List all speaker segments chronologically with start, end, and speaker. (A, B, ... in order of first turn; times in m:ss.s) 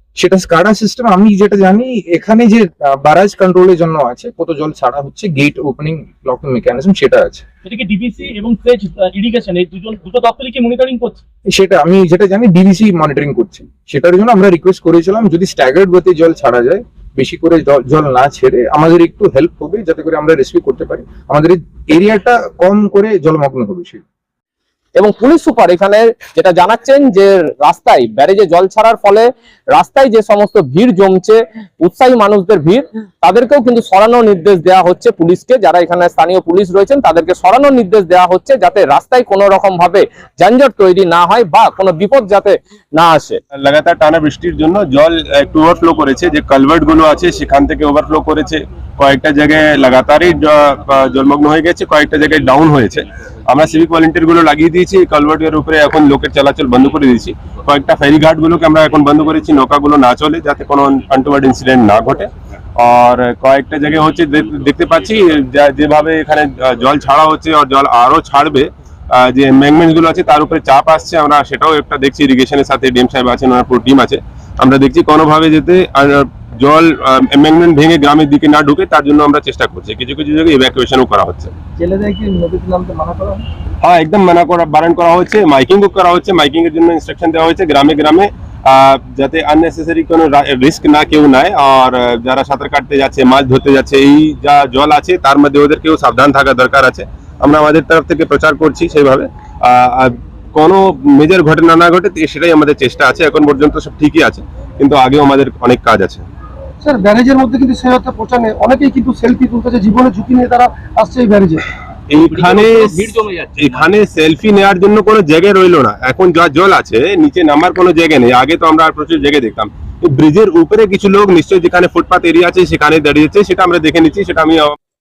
0:00.2-0:07.4 A
0:07.6-0:11.2 B
0:11.5-0:24.0 A
0:25.0-0:43.4 C
0:43.5-1:21.5 D
1:21.8-1:23.4 E
1:23.8-1:46.2 D
1:46.8-1:51.6 E
1:52.1-2:04.7 D
1:52.3-1:53.5 B